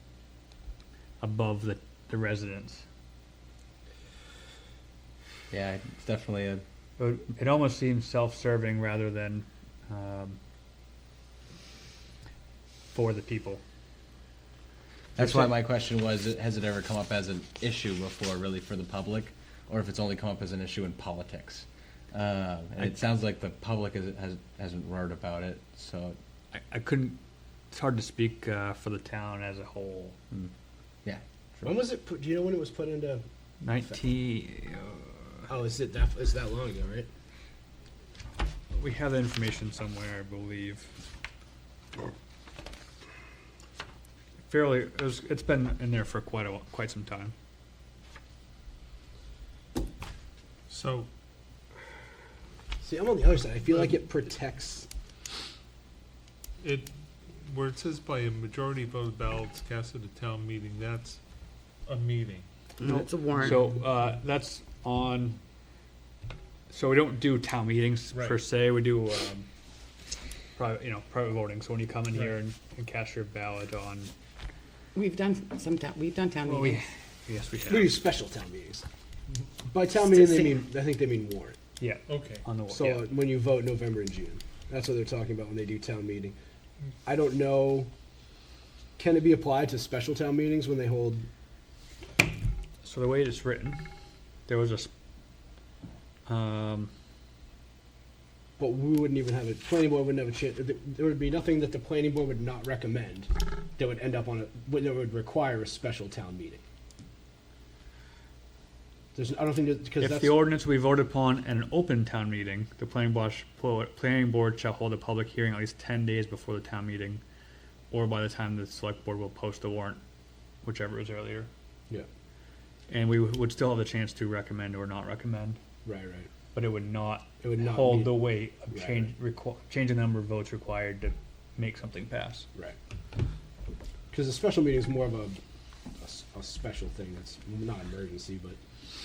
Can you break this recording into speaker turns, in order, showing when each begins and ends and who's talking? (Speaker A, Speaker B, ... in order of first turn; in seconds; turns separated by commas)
Speaker A: 1.2-2.8, Speaker B: 5.5-6.6, Speaker A: 7.0-10.4, Speaker A: 12.9-13.6, Speaker B: 15.2-26.2, Speaker A: 15.2-15.5, Speaker A: 26.5-27.2, Speaker A: 27.7-30.1, Speaker B: 31.0-31.7, Speaker C: 31.6-33.2, Speaker A: 33.6-35.4, Speaker C: 35.5-37.1, Speaker A: 38.7-40.9, Speaker A: 44.5-47.3, Speaker D: 50.7-51.1, Speaker C: 52.8-54.9, Speaker D: 56.6-56.9, Speaker D: 57.4-61.2, Speaker D: 61.9-62.4, Speaker E: 62.8-63.6, Speaker A: 62.8-65.4, Speaker A: 66.7-69.5, Speaker D: 68.1-68.4, Speaker A: 70.5-74.1, Speaker E: 74.9-76.8, Speaker A: 76.5-77.9, Speaker C: 77.6-78.8, Speaker C: 79.6-81.6, Speaker E: 80.0-80.6, Speaker A: 81.8-83.1, Speaker D: 82.1-82.4, Speaker C: 82.7-86.3, Speaker C: 87.0-87.9, Speaker C: 89.0-91.3, Speaker A: 92.8-93.8, Speaker A: 94.5-94.9, Speaker A: 96.3-96.9, Speaker C: 98.6-106.6, Speaker C: 109.1-110.4, Speaker A: 110.0-117.2, Speaker A: 117.9-120.0, Speaker A: 120.6-121.5, Speaker A: 122.9-125.6, Speaker C: 125.8-126.3, Speaker A: 126.5-132.5, Speaker C: 127.4-129.1, Speaker C: 134.1-135.4, Speaker C: 136.0-138.6